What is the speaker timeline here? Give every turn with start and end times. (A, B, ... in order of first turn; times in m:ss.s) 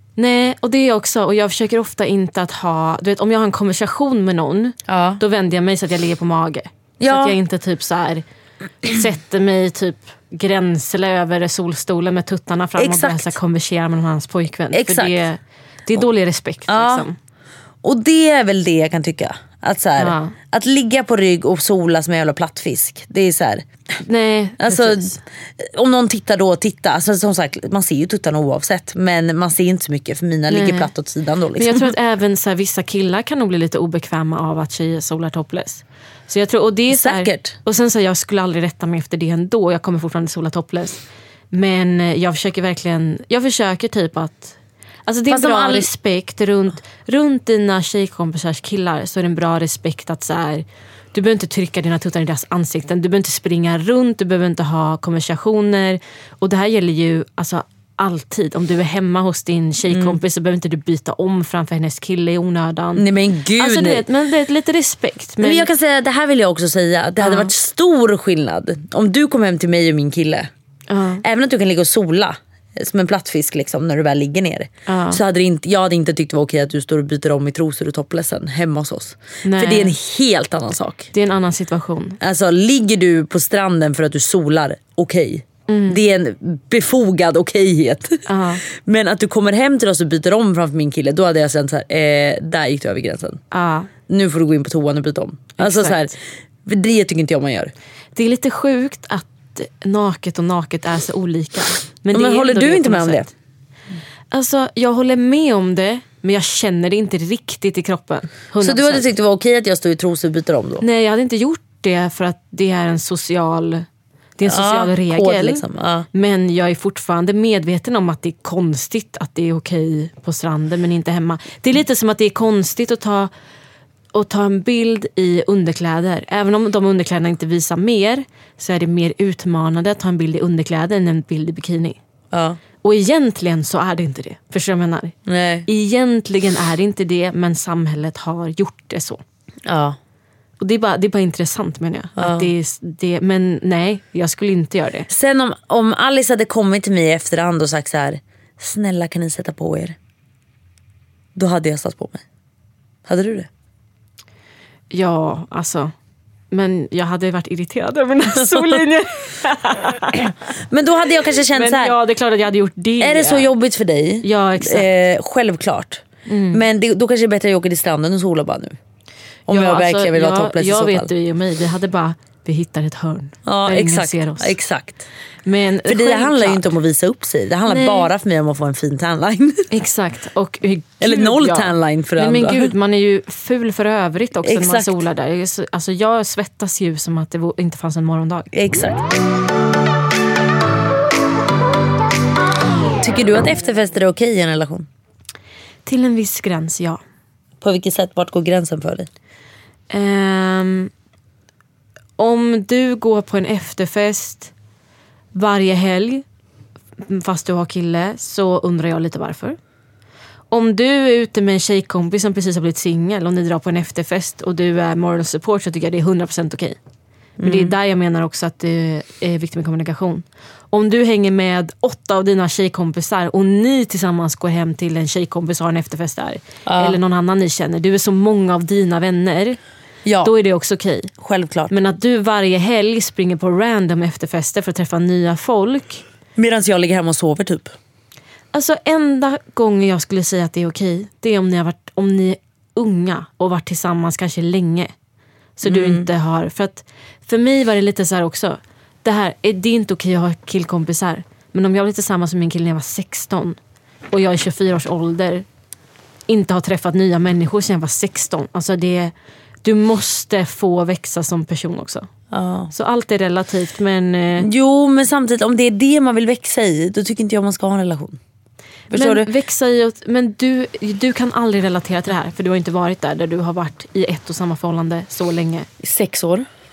0:00.2-0:08.2 A
0:04.9-0:05.2 B
0:07.0-0:07.4 B
0:08.8-0:17.2 A
0:12.8-0:13.4 B
0:14.7-0:15.2 B
0:16.7-0:17.1 B
0:17.8-0:23.7 B
0:20.0-0:20.4 A
0:24.0-0:25.2 A
0:24.6-0:31.9 B
0:30.5-0:30.9 A
0:31.6-1:03.0 A
0:36.9-0:37.6 B
0:45.3-0:45.9 B
0:59.9-1:00.2 B
1:03.0-1:04.0 B
1:03.6-1:05.7 A
1:05.4-1:10.5 B
1:07.2-1:07.5 A
1:10.9-1:11.2 A
1:11.2-1:21.1 B
1:14.9-1:15.2 A
1:19.4-1:19.9 A
1:21.1-1:22.2 A
1:22.2-1:33.4 B
1:25.7-1:26.0 A
1:28.3-1:28.6 A
1:33.5-1:33.9 A
1:34.1-1:37.7 B
1:35.6-1:36.1 A
1:38.1-1:43.3 A
1:42.1-1:43.3 B
1:44.3-1:49.1 A
1:48.6-1:50.8 B
1:50.8-1:53.8 A
1:54.4-2:03.3 A
1:54.4-1:56.1 B
2:04.1-2:12.0 A
2:12.3-2:12.6 B
2:12.8-2:15.2 A
2:15.2-2:15.7 B
2:15.7-2:19.2 A
2:19.6-2:20.0 B
2:20.6-2:25.1 A
2:22.2-2:22.5 B
2:25.1-2:30.0 B
2:31.3-2:32.2 B
2:33.0-2:33.5 B
2:34.9-2:35.9 A
2:36.5-2:40.3 A
2:38.4-2:38.8 B
2:40.7-2:42.0 B
2:41.5-2:43.5 A
2:43.0-2:48.8 B
2:44.2-2:44.9 A
2:46.2-2:46.6 A
2:49.5-2:51.1 B
2:49.5-2:54.6 A
2:53.4-2:55.1 B
2:55.4-2:56.7 A
2:55.8-2:59.6 B
2:57.7-2:58.1 A
2:59.7-3:08.5 A
3:01.0-3:02.7 B
3:04.4-3:05.0 B
3:08.5-3:09.0 B
3:13.0-3:14.9 B
3:15.8-3:17.0 A
3:17.6-3:19.1 B
3:19.9-3:20.9 A
3:22.2-3:24.5 A
3:25.3-3:26.2 A
3:27.0-3:29.6 A
3:30.5-3:36.8 A
3:37.4-3:37.7 B
3:37.4-3:49.6 A
3:46.6-3:47.0 B
3:50.0-3:50.3 B
3:50.2-3:51.1 A
3:51.2-3:51.7 B
3:51.7-3:56.0 A
3:56.4-3:57.7 B
3:58.5-4:04.9 A
4:05.6-4:13.6 A
4:05.6-4:06.1 B
4:14.1-4:15.4 A
4:16.3-4:19.1 A
4:19.6-4:22.1 A
4:22.3-4:22.7 B
4:22.7-4:24.5 A
4:24.4-4:28.2 B
4:28.9-4:29.3 B
4:28.9-4:35.7 A
4:35.8-4:36.5 B